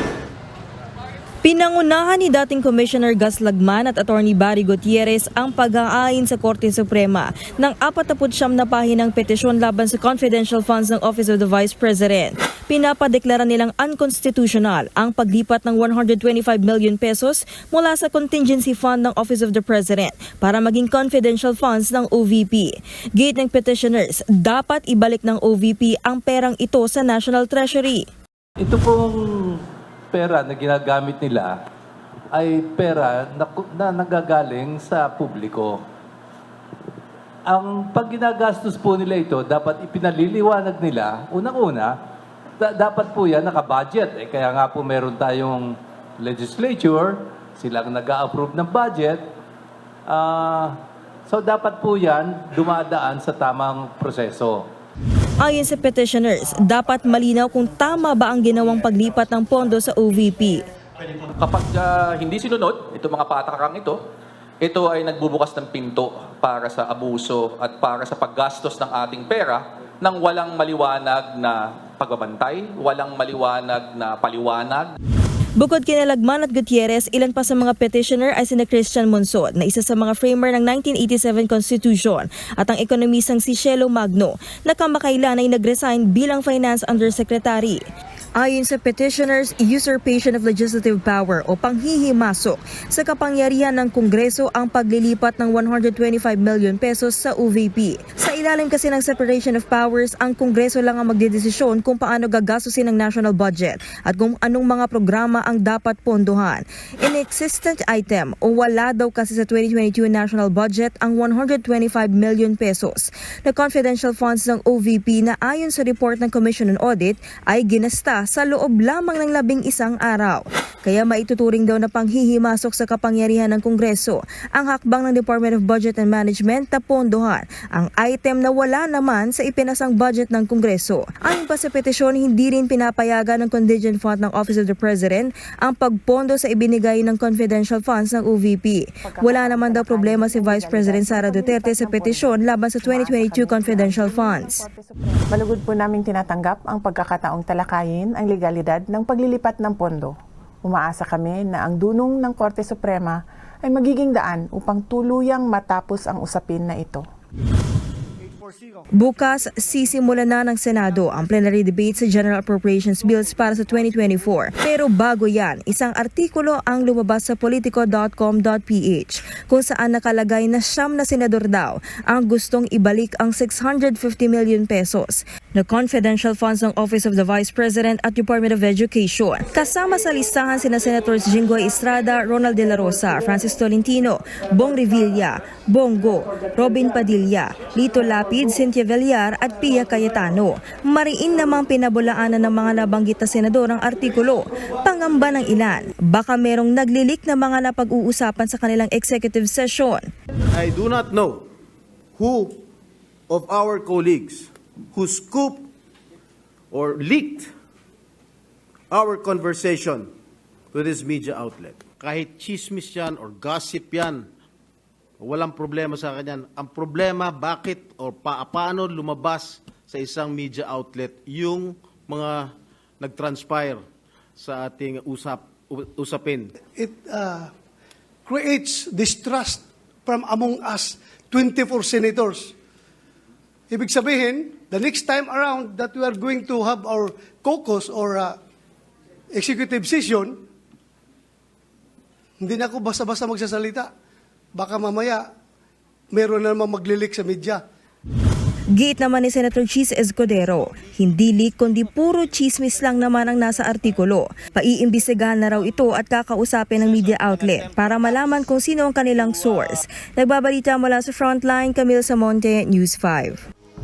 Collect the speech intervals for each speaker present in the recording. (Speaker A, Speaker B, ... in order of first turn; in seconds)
Speaker A: 1.4-28.1, 55.4-60.6, 75.6-87.8, 88.4-144.6, 158.9-200.1, 248.7-263.4
Speaker B: 28.6-29.6, 30.1-31.6, 32.3-35.8, 37.5-41.9, 42.6-49.2, 50.1-50.8, 51.3-54.6
Speaker C: 61.4-64.0, 64.6-74.9
Speaker D: 139.0-142.3, 142.8-157.0
Speaker E: 200.5-201.5, 202.2-202.6, 203.3-205.7, 206.7-207.5, 208.9-210.1, 210.7-214.3, 215.2-223.8, 224.4-226.5, 256.8-258.5, 259.1-259.7
Speaker F: 226.7-227.5, 228.2-232.5, 233.7-238.4, 239.3-240.4, 242.4-243.9, 244.5-245.2, 246.1-247.6